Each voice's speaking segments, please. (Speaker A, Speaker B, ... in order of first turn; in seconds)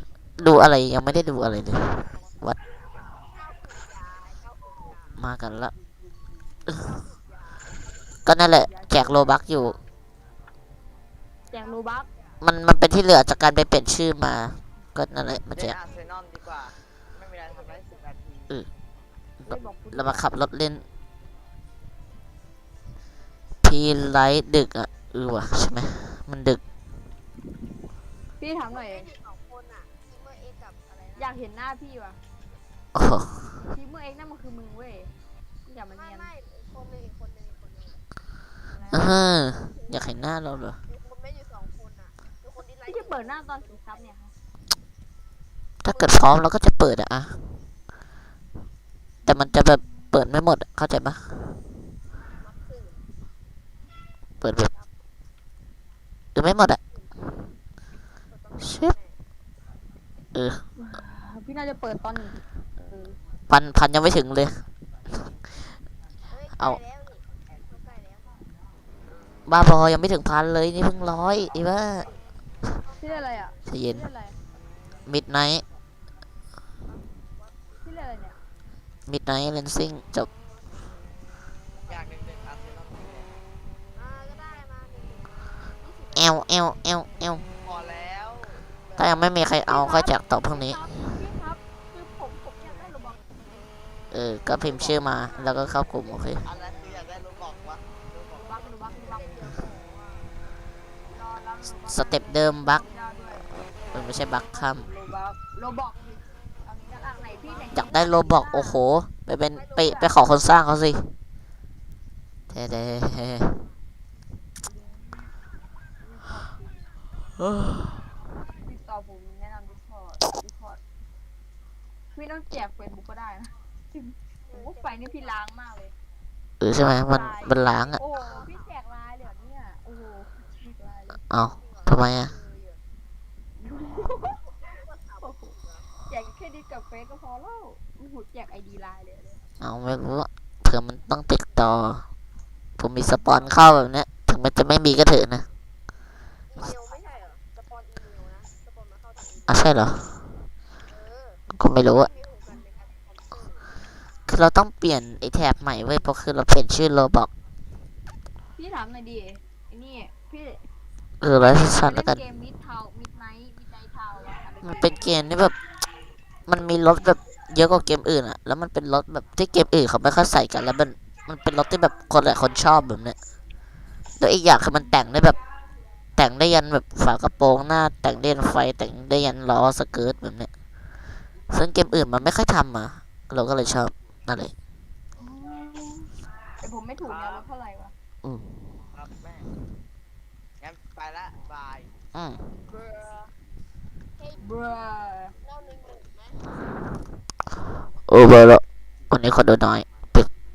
Speaker A: 0.4-2.6, 5.2-5.7, 8.2-9.8, 12.4-15.8, 19.4-20.9, 23.6-26.6, 32.9-33.6, 38.9-40.8, 45.8-47.5, 49.2-51.6, 54.4-54.7, 56.3-56.8, 58.6-58.9, 60.3-60.6, 63.5-65.3, 69.5-72.1, 73.6-74.1, 75.1-75.7, 79.1-80.3, 86.1-87.5, 89.0-90.9, 94.1-96.5, 101.9-102.9, 103.9-104.9, 107.7-111.1, 112.5-113.6, 117.6-117.9, 126.6-128.0, 131.3-132.3, 139.6-142.1, 142.8-145.5, 149.5-150.3, 151.5-152.1, 154.3-157.3, 161.2-162.2, 164.6-165.6, 166.5-173.2, 174.2-175.4, 176.2-180.5, 181.5-184.5, 188.2-188.5, 192.1-192.5, 198.1-200.3
Speaker B: 3.3-5.2, 6.7-7.8, 11.5-12.4, 17.4-18.1, 28.7-31.4, 35.9-38.0, 38.7-40.2, 40.9-44.1, 45.9-46.2, 52.2-53.0, 58.3-59.2, 66.3-68.4, 71.9-72.2, 72.8-73.6, 76.9-77.9, 83.9-86.5, 94.7-96.7, 98.9-100.4, 107.0-108.0, 109.8-110.1, 124.5-125.4, 127.6-128.5, 131.6-132.8, 134.4-135.9, 146.5-149.7, 150.8-153.7, 192.7-193.3, 195.4-196.4
Speaker C: 8.5-9.3, 11.5-12.1, 19.4-20.2, 28.4-29.1, 31.2-32.2, 33.7-35.1, 35.6-36.3, 38.7-39.2, 42.9-44.3, 60.8-63.2, 73.0-74.4, 77.8-78.4, 89.7-93.3, 98.3-99.3, 101.1-103.5, 104.5-108.8, 109.7-110.2, 114.6-115.3, 116.0-116.8, 118.6-120.8, 122.1-125.9, 127.1-131.2, 133.6-134.4, 135.2-139.4, 158.6-160.7, 161.4-165.2, 185.2-187.9, 194.4-195.3
Speaker D: 15.5-18.5, 81.9-83.3, 87.6-89.1, 94.6-95.1, 96.4-98.6, 187.0-187.5, 188.9-189.5, 190.6-191.9